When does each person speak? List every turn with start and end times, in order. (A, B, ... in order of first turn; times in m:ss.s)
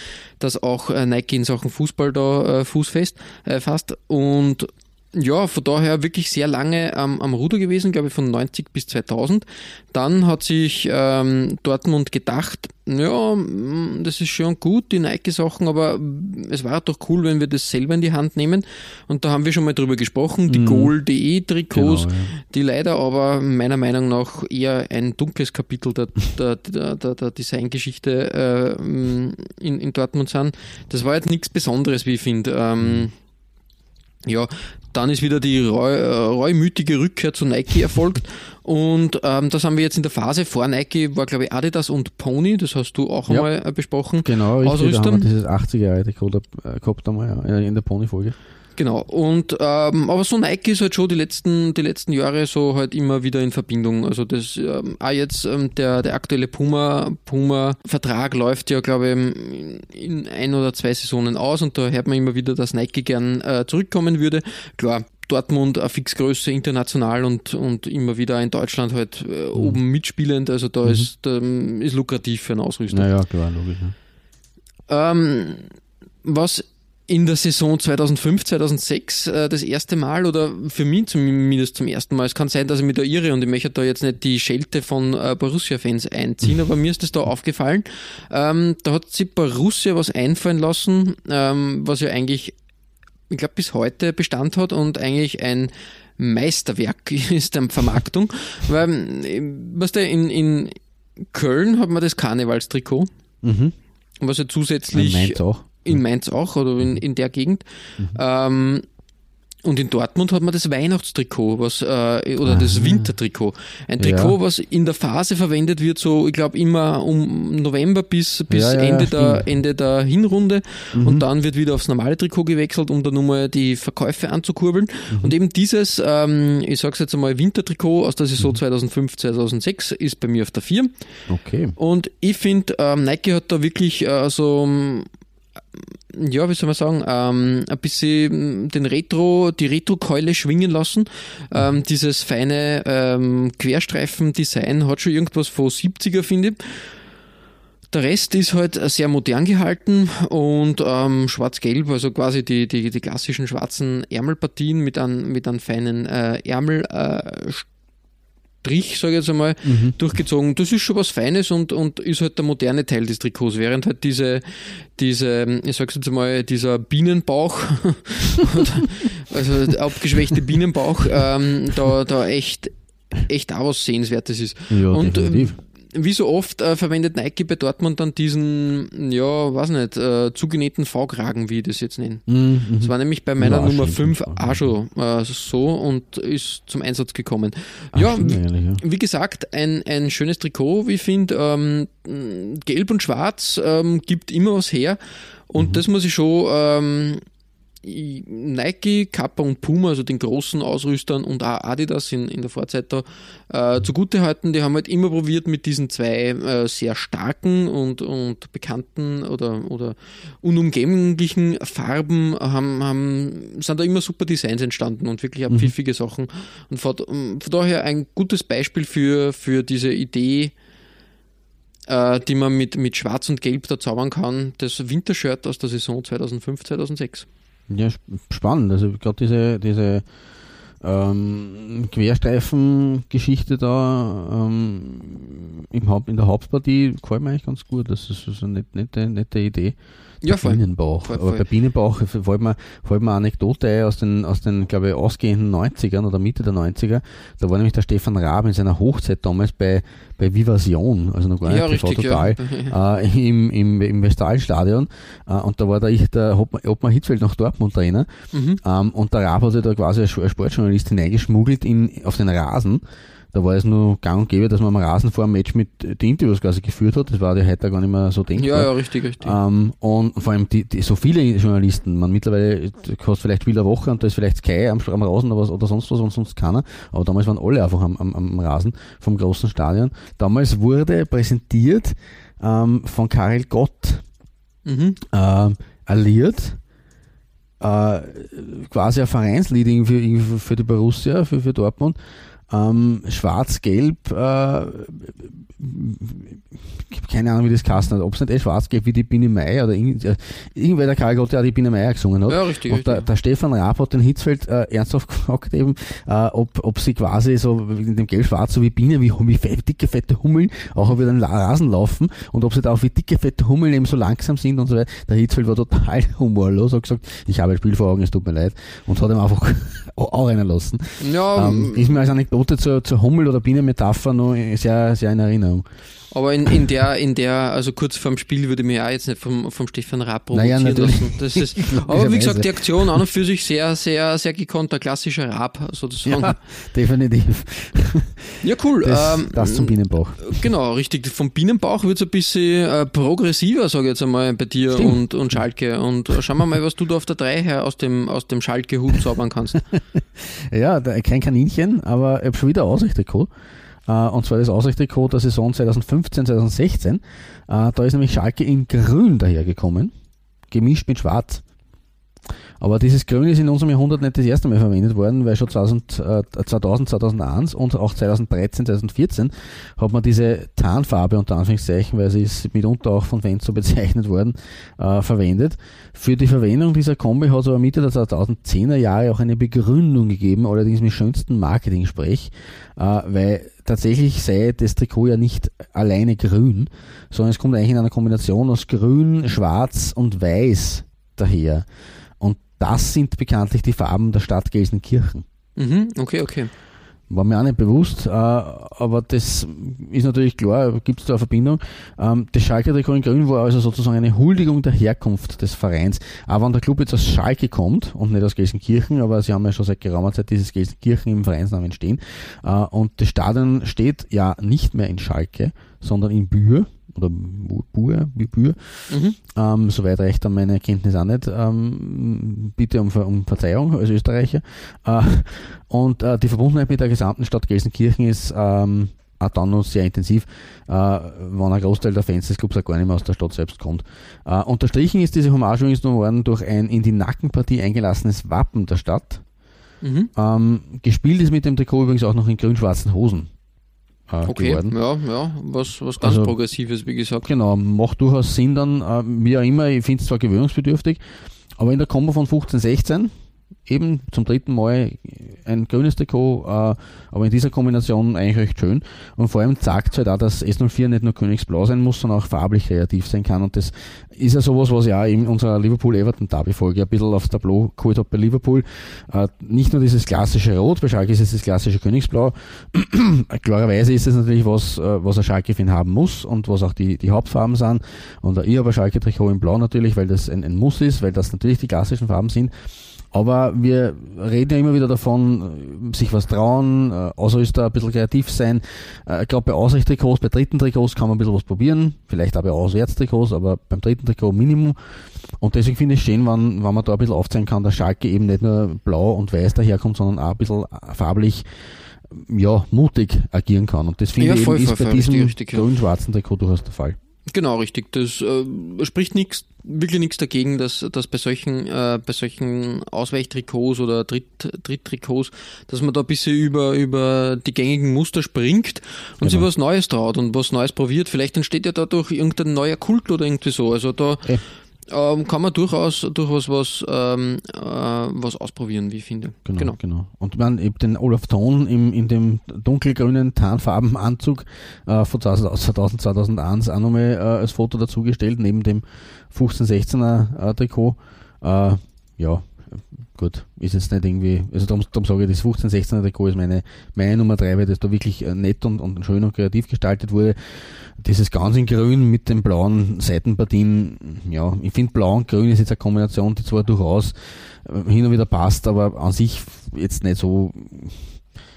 0:00.4-0:33.1 A
0:20.5-0:20.9 B
0:21.7-0:22.3 B
0:32.8-0:33.1 B
0:34.2-0:45.3 A
0:44.2-0:48.4 B
0:48.8-1:13.1 A
1:10.8-1:11.1 B
1:12.9-1:13.9 B
1:14.9-1:15.7 A
1:16.2-1:32.6 A
1:33.3-1:40.8 A
1:41.3-1:43.1 A
1:43.4-1:43.8 B
1:44.2-1:47.6 A
1:44.9-1:46.0 B
1:48.1-1:48.8 A
1:49.6-2:10.9 A
1:52.4-1:53.1 B
1:54.0-1:54.4 B
1:58.5-1:59.5 B
2:00.9-2:01.2 B
2:11.3-2:11.8 B
2:11.8-2:15.1 A
2:16.1-2:26.9 A
2:27.9-2:37.7 A
2:38.6-3:02.3 A
2:39.6-2:40.0 B
2:54.7-2:55.6 B
3:02.3-3:04.7 B
3:02.8-3:15.0 A
3:07.9-3:08.8 B
3:15.5-3:17.2 A
3:15.6-3:15.8 B
3:17.8-3:40.5 A
3:41.9-3:47.3 A
3:47.7-3:50.0 B
3:50.8-4:18.1 B
4:00.2-4:01.4 A
4:11.4-4:12.8 A
4:18.3-4:18.6 A
4:18.6-4:22.8 B
4:23.3-4:44.0 B
4:28.4-4:29.4 A
4:44.7-4:45.0 A
4:45.0-4:46.6 B
4:47.6-4:52.0 B
4:52.5-5:25.7 B
5:02.3-5:03.1 A
5:21.0-5:21.9 A
5:26.1-5:36.4 A
5:30.3-5:33.0 B
5:36.0-5:40.4 B
5:38.4-5:49.6 A
5:44.7-5:45.0 B
5:49.7-5:53.3 B
5:53.9-5:59.9 B
6:00.5-6:01.4 B
6:02.6-6:31.7 B
6:32.2-6:35.2 B
6:35.6-6:36.5 A
6:37.1-7:19.2 B
6:58.9-6:59.2 A
7:19.8-7:20.1 A
7:20.2-7:23.3 B
7:24.1-7:24.8 B
7:24.3-7:27.3 A
7:26.0-7:26.4 B
7:27.2-7:31.0 B
7:31.6-7:33.1 B
7:33.7-8:02.5 B
8:03.1-8:14.8 B
8:15.4-8:21.5 B
8:22.1-8:27.0 B
8:24.2-8:25.6 A
8:27.3-8:44.3 A
8:39.2-8:39.5 B
8:44.9-8:49.8 A
8:49.5-9:21.1 B